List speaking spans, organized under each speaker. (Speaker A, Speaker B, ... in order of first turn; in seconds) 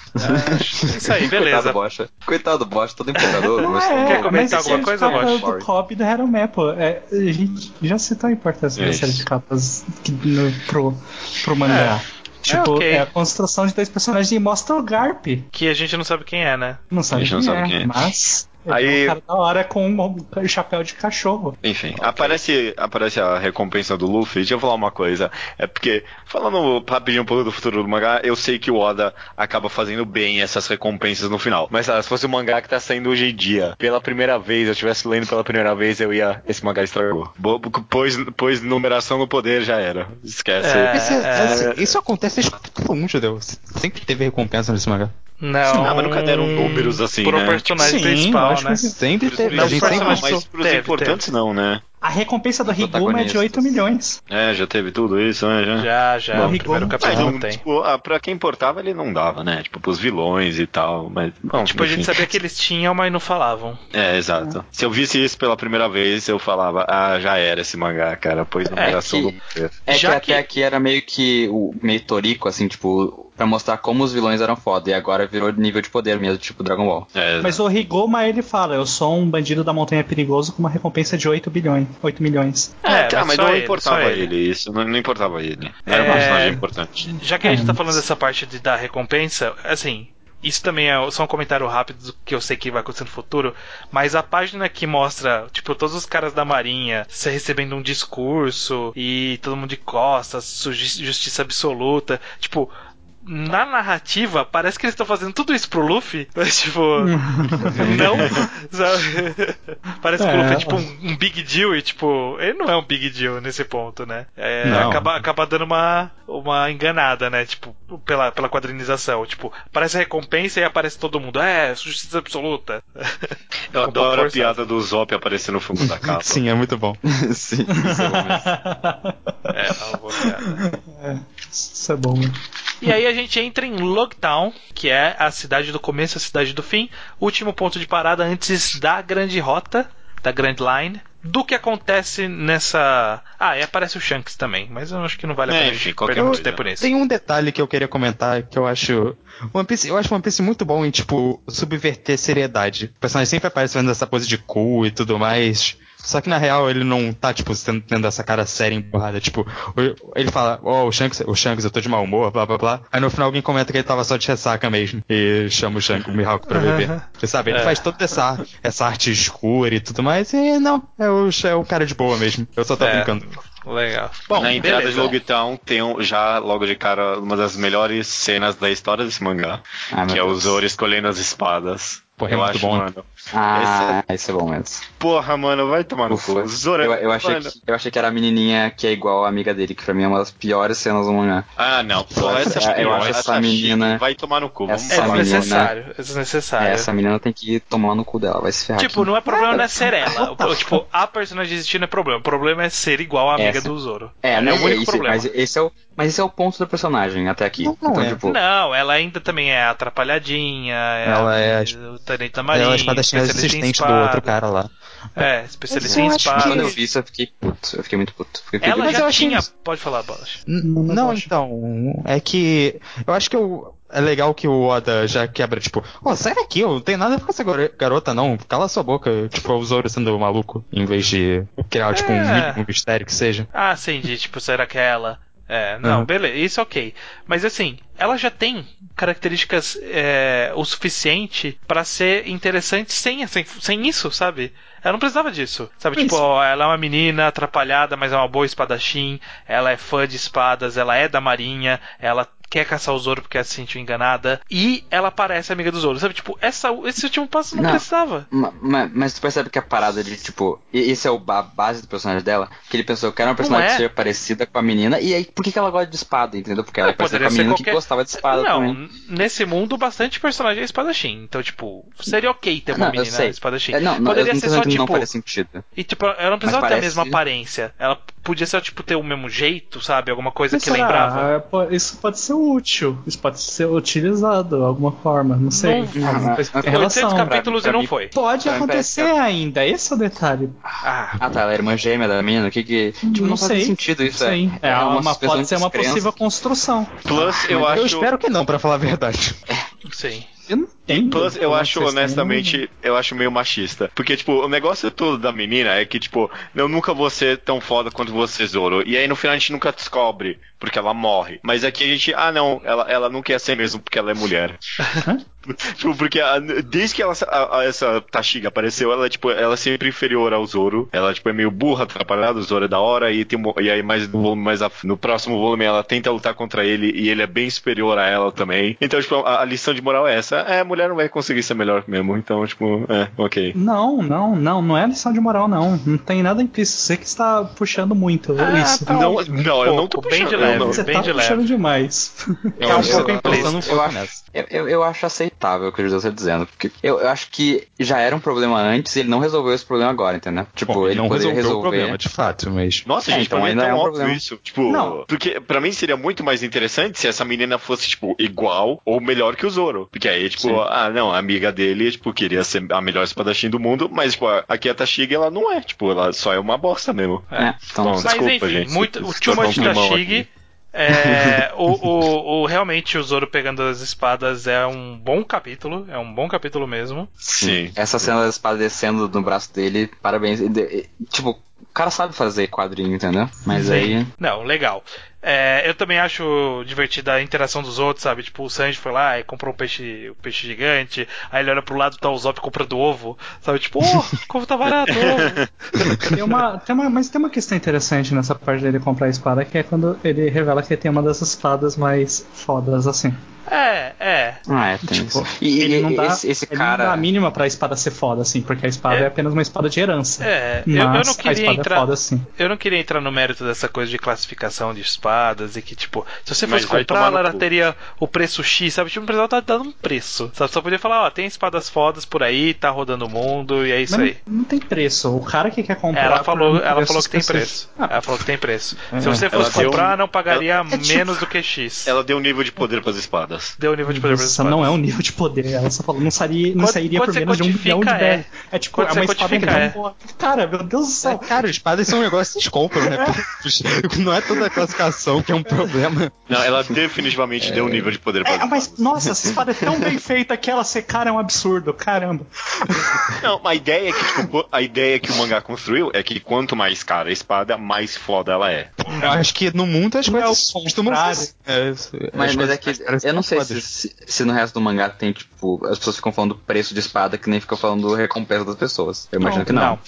Speaker A: 0.2-1.8, 3.1-5.4, 11.7-13.1, 15.5-16.8, 40.6-41.8, 45.4-48.9, 49.5-51.2, 55.8-57.6, 61.6-63.8, 68.7-69.0, 69.9-70.4, 82.8-84.3, 85.8-86.6, 87.1-102.7, 103.2-124.7, 129.5-130.6, 132.8-146.9, 166.5-167.9, 172.8-175.2, 194.9-196.9, 198.8-205.3, 208.2-214.4, 215.2-216.8, 218.6-220.4, 231.9-232.6, 233.5-258.3, 263.4-263.9, 266.8-275.1, 275.8-281.3, 285.5-288.1, 290.8-291.2, 299.9-300.3, 338.4-341.5, 342.6-343.6, 367.3-377.1, 383.5-396.1, 403.5-404.4, 410.2-424.2, 425.9-431.9, 433.6-434.8, 436.6-439.8, 469.2-469.8
Speaker B: 0.2-5.7, 52.6-53.8, 68.8-77.1, 127.0-128.5, 179.9-180.6, 183.3-184.8, 186.1-191.5, 192.4-194.0, 194.7-195.7, 196.6-200.6, 203.4-203.7, 204.2-208.4, 215.8-219.1, 257.5-268.8, 272.7-275.6, 276.4-277.2, 285.9-288.9, 291.2-296.1, 342.7-352.0, 353.1-354.2, 367.4-368.1, 369.2-370.0, 370.9-371.4, 377.4-384.1, 404.5-407.1, 447.4-447.9, 449.0-449.4, 462.1-469.8
Speaker C: 3.6-15.5, 16.9-21.6, 47.8-50.3, 52.0-54.2, 56.3-57.0, 77.4-82.8, 86.0-86.6, 87.4-88.0, 107.0-108.4, 110.2-110.9, 127.7-129.6, 130.2-132.9, 220.6-221.3, 246.0-246.2, 280.5-287.4, 288.1-290.6, 293.0-297.9, 300.5-302.6, 333.5-339.2, 340.4-342.9, 354.7-355.0, 383.6-383.9, 396.1-403.2, 404.9-412.2, 423.9-428.1, 429.1-429.9, 433.9-441.4, 442.8-443.2, 448.2-453.1, 458.9-459.2, 460.1-461.3, 469.2-469.5
Speaker D: 8.8-9.2, 17.1-18.0, 18.7-19.2, 21.6-41.8, 45.8-48.0, 49.2-51.8, 54.3-62.3, 63.9-69.8, 77.1-77.6, 82.8-87.1, 123.7-126.4, 145.5-146.6, 174.3-184.0, 185.0-187.5, 191.6-195.6, 297.0-298.1, 300.9-314.6, 315.4-333.5, 338.9-340.9, 352.9-370.2, 377.2-378.1, 394.8-395.5, 416.4-417.5, 429.3-430.5, 431.9-433.6, 446.3-448.9, 453.2-458.7
Speaker E: 40.9-45.1, 48.9-50.4, 57.0-57.3, 114.6-115.1, 125.8-127.0, 146.2-173.3, 182.2-182.8, 192.1-193.2, 207.6-208.2, 211.0-211.7, 212.5-214.7, 215.7-216.7, 218.7-219.5, 220.5-233.5, 235.8-236.1, 297.7-299.4, 342.6-344.2, 350.6-352.9, 428.9-429.3, 441.0-446.1, 459.0-463.6